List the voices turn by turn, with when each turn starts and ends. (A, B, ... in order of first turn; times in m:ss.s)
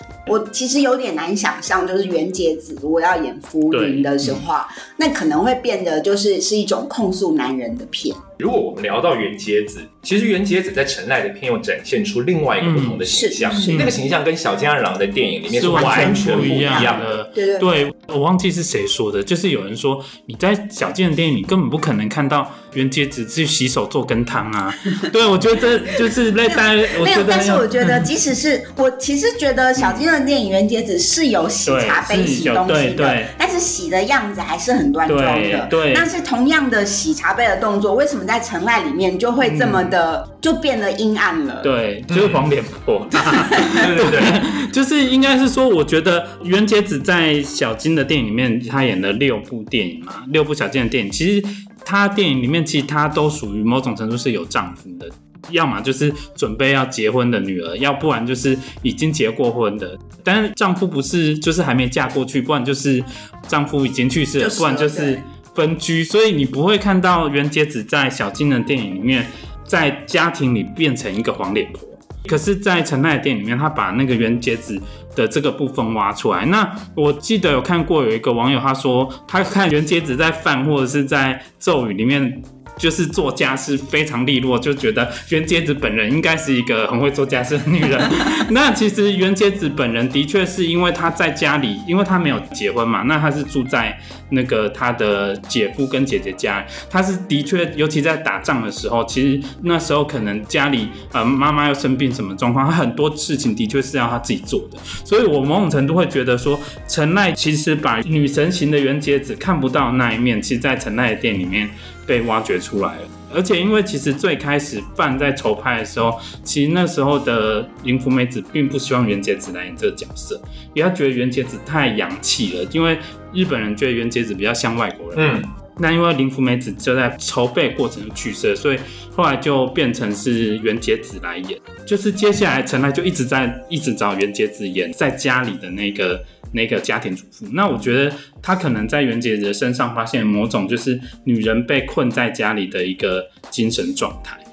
0:00.3-0:08.2 A
0:03.7-0:04.4 B
0:08.4-0:17.1 C
0:12.6-0:14.0 B
0:13.1-0:13.7 A
0:15.6-0:28.1 B
0:15.7-0:17.7 A
0:26.1-0:41.7 A
0:31.6-0:33.3 B
0:35.1-0:36.1 B
0:39.4-0:39.9 B
0:41.6-2:24.4 B
0:42.1-0:42.5 C
0:43.3-0:43.8 A
0:43.7-0:44.4 C
1:04.4-1:05.2 A
2:05.2-2:05.5 C